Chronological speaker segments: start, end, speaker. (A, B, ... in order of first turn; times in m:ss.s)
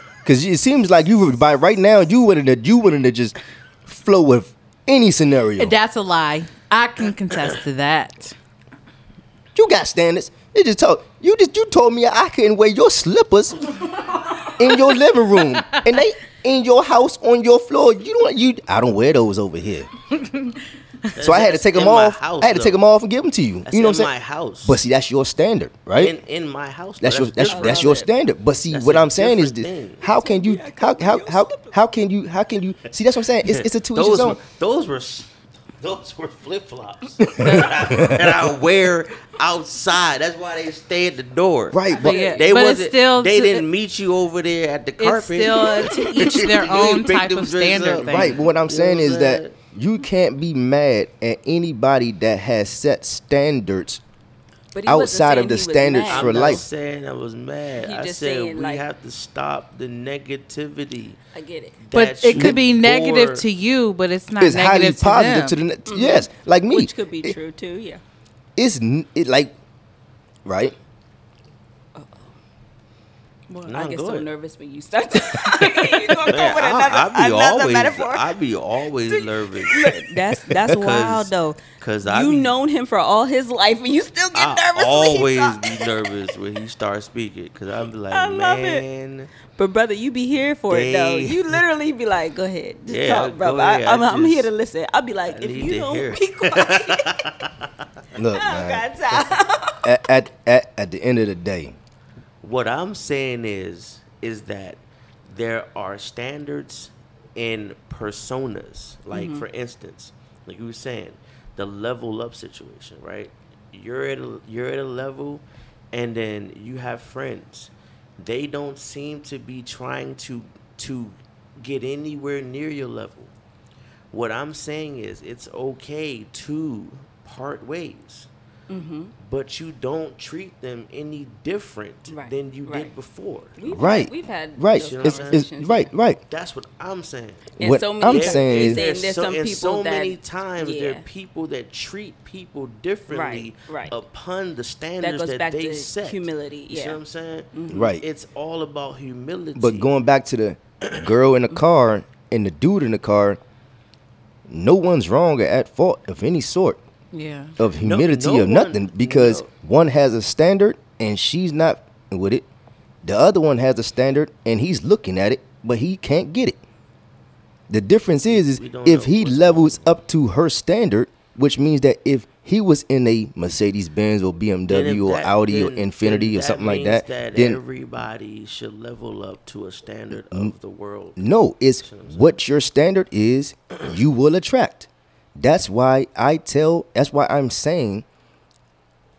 0:00.2-0:05.8 A
0:05.6-0:08.4 B
0:09.6-0:13.8 A
0:14.6-0:19.9 A
0:15.4-0:15.7 B
0:21.1-0:22.8 C
0:21.2-0:24.1 A
0:23.7-0:24.8 C
0:24.6-0:26.2 A
0:25.9-0:28.0 C
0:27.0-0:34.4 A
0:27.5-0:28.1 D
0:28.7-0:30.0 C
0:30.0-0:31.8 D
0:33.4-0:49.6 C
0:37.2-0:38.3 A
0:41.7-0:42.3 A
0:41.9-0:42.4 D
0:42.0-0:43.6 B
0:45.0-0:48.4 B
0:48.1-0:54.0 A
0:54.7-0:56.6 D
0:54.9-0:56.6 A
0:56.1-1:01.2 C
0:57.8-0:58.8 D
1:01.3-1:01.8 D
1:01.8-1:03.5 C
1:01.9-1:05.6 B
1:02.3-1:02.6 A
1:04.4-1:07.4 A
1:05.9-1:08.0 D
1:08.6-1:09.6 A
1:10.4-1:10.8 A
1:12.0-1:12.3 D
1:13.5-1:13.8 B
1:13.7-1:14.3 C
1:13.7-1:18.3 D
1:15.5-1:16.3 B
1:16.3-1:20.0 C
1:19.1-1:26.0 D
1:20.6-1:22.5 C
1:24.3-1:29.3 C
1:28.1-1:28.8 D
1:29.5-1:37.1 D
1:30.7-1:31.6 C
1:32.9-1:34.5 C
1:35.3-1:37.7 C
1:38.2-1:38.9 A
1:38.3-1:39.9 D
1:39.8-1:41.8 A
1:42.4-2:03.3 C
1:49.1-1:49.4 D
2:04.1-2:08.3 C
2:08.7-2:09.1 D
2:09.2-2:13.6 C
2:12.1-2:12.9 D
2:13.6-2:15.9 D
2:13.7-2:16.2 A
2:14.8-2:15.4 C
2:16.3-2:29.9 C
2:17.6-2:18.8 A
2:17.6-2:21.0 D
2:23.1-2:24.0 D
2:25.0-2:27.0 D
2:27.5-2:28.0 D
2:27.7-2:28.0 A
2:29.6-2:33.4 A
2:34.5-2:36.8 A
2:37.1-2:37.6 B
2:37.6-2:42.4 A
2:37.8-2:39.5 C
2:43.0-2:46.6 A
2:47.7-2:57.6 A
2:48.3-2:50.0 C
2:54.7-3:02.4 C
3:00.1-3:00.5 A
3:01.2-3:08.0 A